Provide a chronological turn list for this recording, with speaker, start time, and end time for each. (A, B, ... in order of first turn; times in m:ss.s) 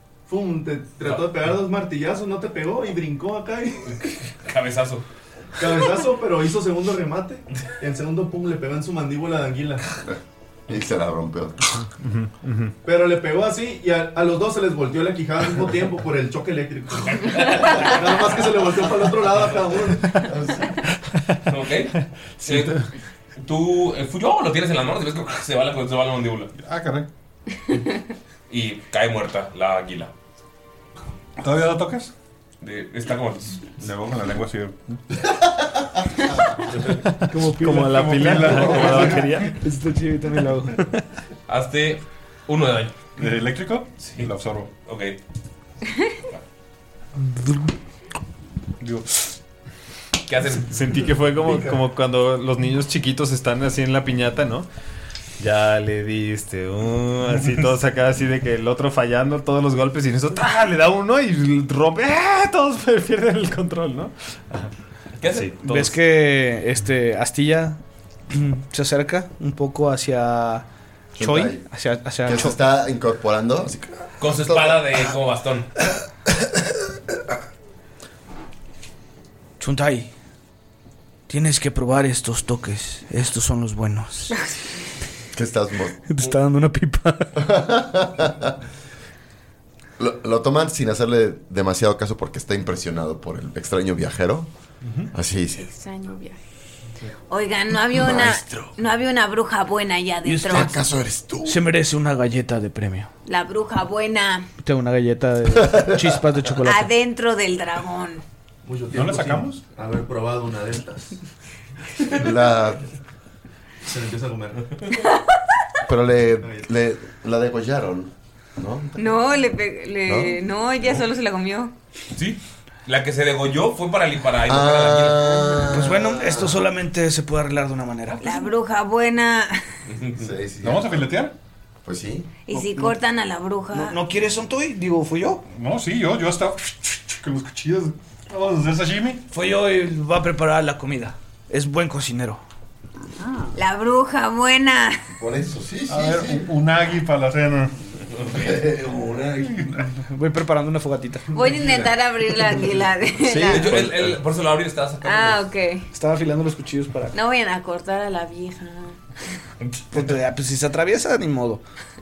0:00.3-0:04.0 A
0:03.9-0:05.0 B
0:05.6-0:09.9 A
0:10.7-0:11.6 C
0:12.0-0:12.7 D
0:12.8-0:20.2 A
0:20.1-0:20.7 C
0:21.4-0:22.8 B
0:22.4-0:22.9 D
0:23.4-0:26.5 B
0:26.5-0:27.1 E
0:28.5-0:30.1 B
0:31.4-0:32.1 E
0:32.6-0:33.8 B
0:33.8-0:35.0 E
0:36.7-0:37.0 A
0:37.3-0:39.1 F
0:37.5-0:39.6 D
0:37.6-0:39.6 E
0:39.6-0:40.8 F
0:41.5-0:43.0 B
0:43.2-0:44.7 E
0:44.0-0:44.3 B
0:44.8-0:45.2 B
0:48.8-0:49.2 E
0:50.3-0:51.0 B
0:50.6-0:54.7 D
0:55.4-1:04.7 D
1:05.2-1:05.9 B
1:05.2-1:05.8 D
1:05.6-1:12.5 F
1:11.2-1:11.6 C
1:12.2-1:15.0 C
1:14.2-1:15.7 B
1:19.6-1:20.1 G
1:21.3-1:24.3 G
1:25.3-1:25.9 C
1:26.1-1:27.4 F
1:27.4-1:28.6 C
1:30.0-1:34.5 C
1:35.1-1:35.7 C
1:35.5-1:36.4 H
1:37.3-1:40.8 H
1:37.9-1:38.7 C
1:40.3-1:40.6 G
1:40.4-1:41.6 C
1:41.4-1:43.1 G
1:43.2-1:44.4 H
1:44.6-1:46.9 F
1:46.1-1:46.5 G
1:46.6-1:48.2 H
1:48.6-1:51.2 A
1:48.9-1:49.6 E
1:52.1-1:52.9 C
1:53.8-1:54.7 A
1:55.8-1:59.2 C
1:56.4-1:56.7 A
1:59.0-2:01.7 H
2:00.0-2:00.4 C
2:02.1-2:05.6 B
2:04.5-2:06.6 C
2:05.7-2:08.3 G
2:08.2-2:09.6 H
2:09.9-2:10.3 B
2:10.2-2:11.2 C
2:10.6-2:11.3 E
2:11.8-2:12.3 C
2:12.5-2:14.0 H
2:13.7-2:15.4 F
2:13.9-2:14.5 G
2:15.5-2:19.2 E
2:19.3-2:20.9 G
2:19.4-2:21.1 F
2:21.5-2:22.4 G
2:23.5-2:25.0 H
2:25.1-2:26.5 C
2:25.9-2:27.8 E
2:28.1-2:28.6 B
2:28.3-2:29.7 C
2:29.5-2:29.8 E
2:30.0-2:31.3 F
2:31.3-2:33.8 H
2:33.2-2:34.2 C
2:33.5-2:35.4 B
2:35.0-2:35.9 H
2:35.9-2:37.1 F
2:37.1-2:39.0 H
2:39.9-2:41.6 F